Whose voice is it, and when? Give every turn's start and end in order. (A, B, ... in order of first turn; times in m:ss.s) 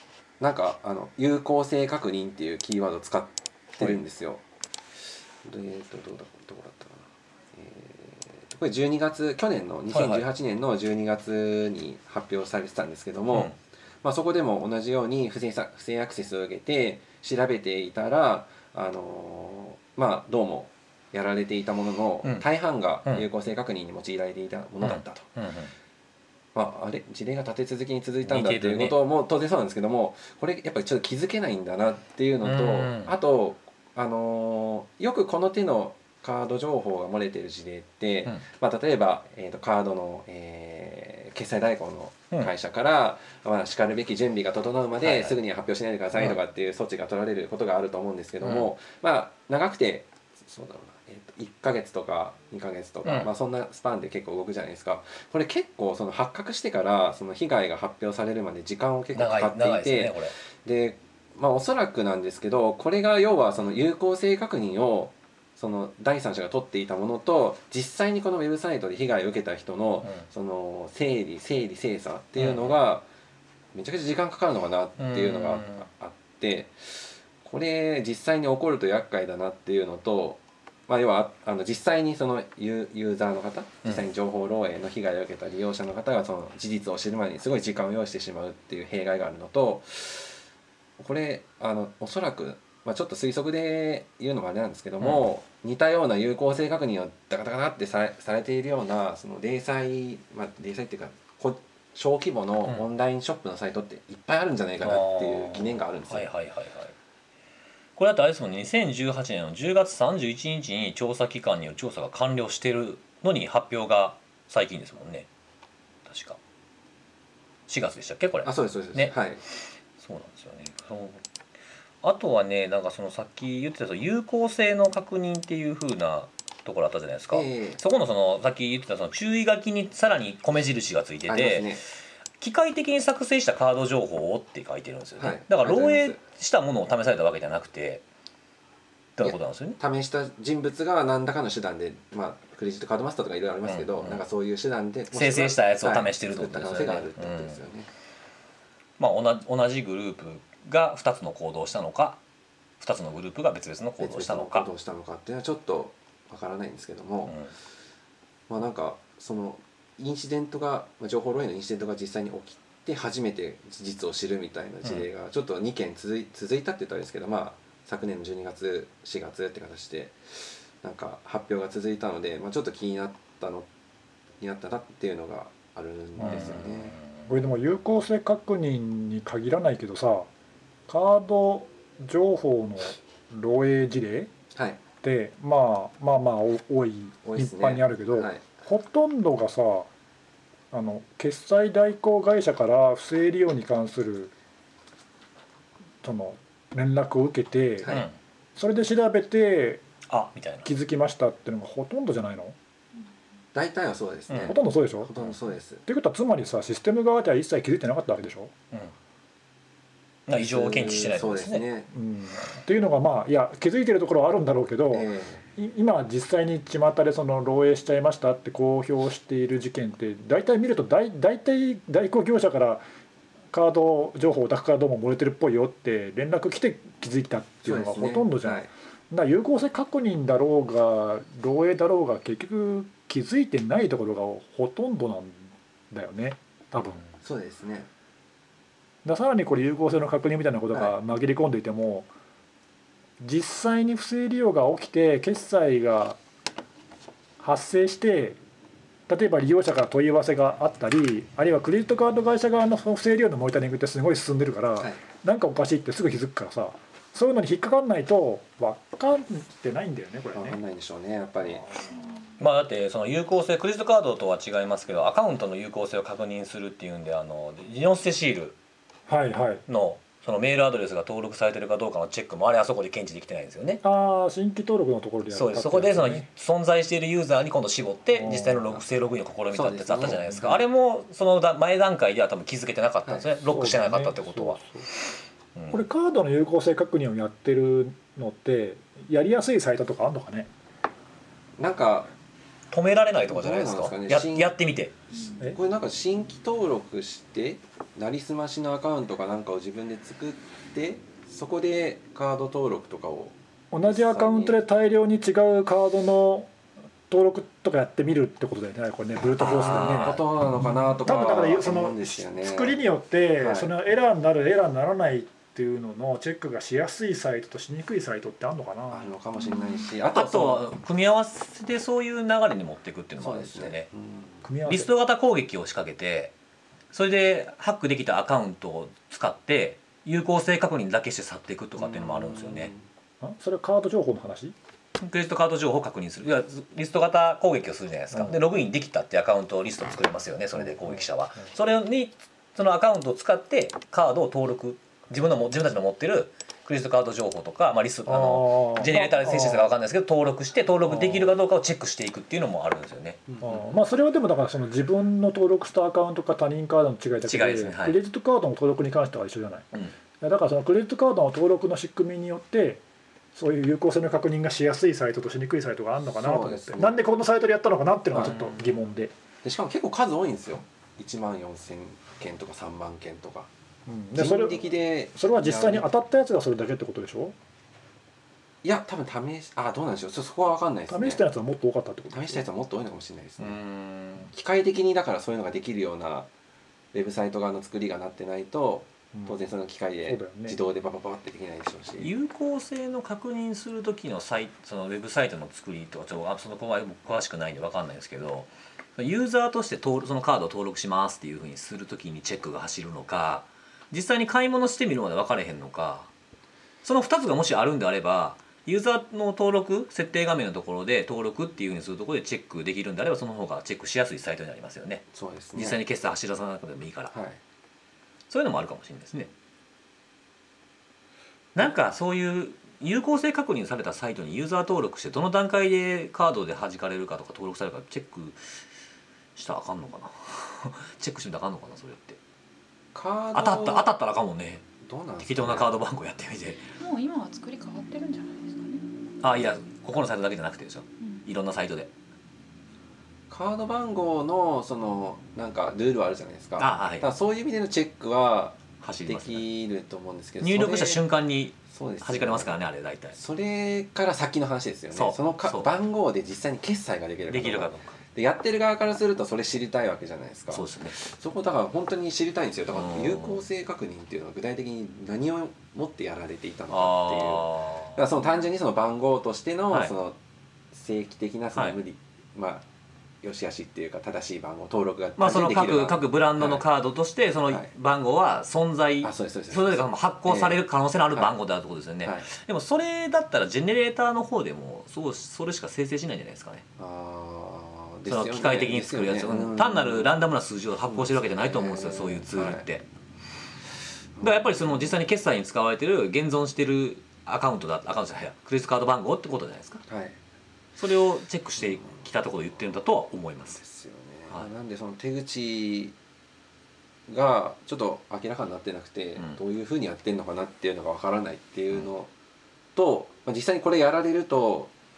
0:00.4-0:04.4 A
0:05.4-0:07.0 A
0:07.5-0:25.3 A
0:09.9-0:10.2 B
0:24.8-0:25.7 B
0:26.5-1:13.0 A
0:28.2-0:29.0 B
0:32.4-0:33.1 B
0:45.0-0:45.4 B
0:48.4-0:48.7 B
0:59.1-1:00.3 B
1:12.4-1:12.8 B
1:13.7-1:30.4 A
1:15.0-1:15.9 B
1:31.0-1:46.3 A
1:44.8-1:46.9 B
1:48.0-1:55.3 B
1:56.0-1:56.4 B
1:57.7-1:59.1 B
1:58.4-1:59.4 A
2:00.0-2:01.2 B
2:02.0-2:11.8 B
2:07.3-2:07.8 A
2:11.3-2:11.8 A
2:12.4-2:18.0 B
2:15.2-2:16.2 A
2:19.2-2:19.8 B
2:19.2-2:27.9 A
2:23.6-2:24.2 B
2:25.1-2:27.6 B
2:29.0-2:32.2 B
2:32.8-2:34.6 B
2:34.0-2:37.3 A
2:37.2-2:37.5 B
2:38.5-2:53.7 A
2:54.4-2:57.0 A
2:56.2-2:57.3 B
2:57.3-3:00.3 C
3:00.9-3:04.3 C
3:04.5-3:04.8 A
3:05.0-3:09.9 C
3:07.2-3:08.4 A
3:10.7-3:14.3 C
3:16.0-3:18.0 C
3:17.8-3:18.1 B
3:18.6-3:19.8 C
3:20.1-3:20.7 B
3:20.6-3:22.6 C
3:23.5-3:25.8 A
3:24.5-3:25.1 C
3:25.8-3:28.5 C
3:30.3-3:31.6 B
3:30.3-3:31.9 A
3:31.9-3:42.8 C
3:34.9-3:35.4 A
3:43.5-3:57.0 C
3:47.6-3:48.7 A
3:57.2-3:57.9 A
3:59.0-4:02.1 C
4:03.2-4:06.2 C
4:07.4-4:08.4 C
4:09.1-4:20.6 C
4:20.3-4:21.7 A
4:21.5-4:22.1 C
4:22.4-4:28.5 B
4:29.1-4:29.6 C
4:29.7-4:33.8 B
4:33.8-4:36.3 C
4:35.3-4:44.6 B
4:38.1-4:38.7 C
4:39.5-4:40.6 A
4:43.5-4:44.9 C
4:45.6-4:45.8 B
4:45.7-4:50.5 C
4:51.6-4:52.1 A
4:52.7-4:54.9 B
4:53.2-4:54.5 A
4:55.5-5:04.6 A
5:03.7-5:06.5 C
5:07.1-5:10.2 C
5:09.4-5:10.2 B
5:09.4-5:12.8 A
5:11.0-5:19.1 C
5:13.4-5:13.7 A
5:18.9-5:20.6 A
5:19.4-5:19.9 D
5:20.1-5:23.9 B
5:23.2-5:24.4 A
5:24.4-5:24.9 C
5:24.6-5:26.3 B
5:26.9-5:32.7 B
5:31.8-5:32.8 A
5:33.2-5:34.5 C
5:35.0-5:53.2 B
5:38.1-5:38.4 C
5:40.6-5:41.0 C
5:48.1-5:49.7 C
5:50.9-5:51.3 C
5:53.3-5:53.6 A
5:53.4-5:59.7 C
5:57.2-5:58.0 B
6:00.2-6:02.8 C
6:03.3-6:09.1 C
6:06.1-6:07.0 A
6:08.1-6:08.7 B
6:09.4-6:13.5 A
6:13.8-6:14.6 C
6:14.1-6:15.9 A
6:15.1-6:17.3 C
6:18.6-6:21.2 A
6:20.9-6:22.5 C
6:22.1-6:23.6 A
6:23.4-6:24.3 B
6:24.2-6:26.3 A
6:26.9-6:32.1 A
6:30.1-6:30.6 C
6:32.0-6:46.1 B
6:46.8-6:57.1 B
6:55.1-6:55.8 A
6:57.1-6:57.4 A
6:58.3-6:59.3 B
7:01.5-7:08.5 B
7:09.4-7:12.2 B
7:12.9-7:13.9 A
7:13.3-7:14.6 B
7:14.8-7:15.7 A
7:15.2-7:16.7 B
7:16.8-7:18.8 D
7:19.2-7:21.9 B
7:23.3-7:31.0 A
7:26.6-7:27.0 B
7:28.8-7:29.5 B
7:30.4-7:33.2 B
7:31.7-7:32.6 A
7:33.1-7:50.2 A
7:34.9-7:35.7 B
7:37.3-7:38.0 B
7:40.5-7:41.0 B
7:42.7-7:43.4 B
7:46.7-7:48.0 B
7:48.1-7:48.4 D
7:50.7-7:52.6 A
7:53.2-7:56.6 A
7:55.2-8:06.6 B
7:59.0-8:00.6 A
8:02.0-8:02.3 A
8:06.8-8:10.1 A
8:08.1-8:12.8 B
8:10.9-8:12.6 A
8:14.2-8:14.5 A
8:14.2-8:19.8 B
8:19.9-8:20.2 A
8:20.8-8:23.6 B
8:23.5-8:25.9 A
8:27.1-8:32.1 A
8:32.7-8:34.7 A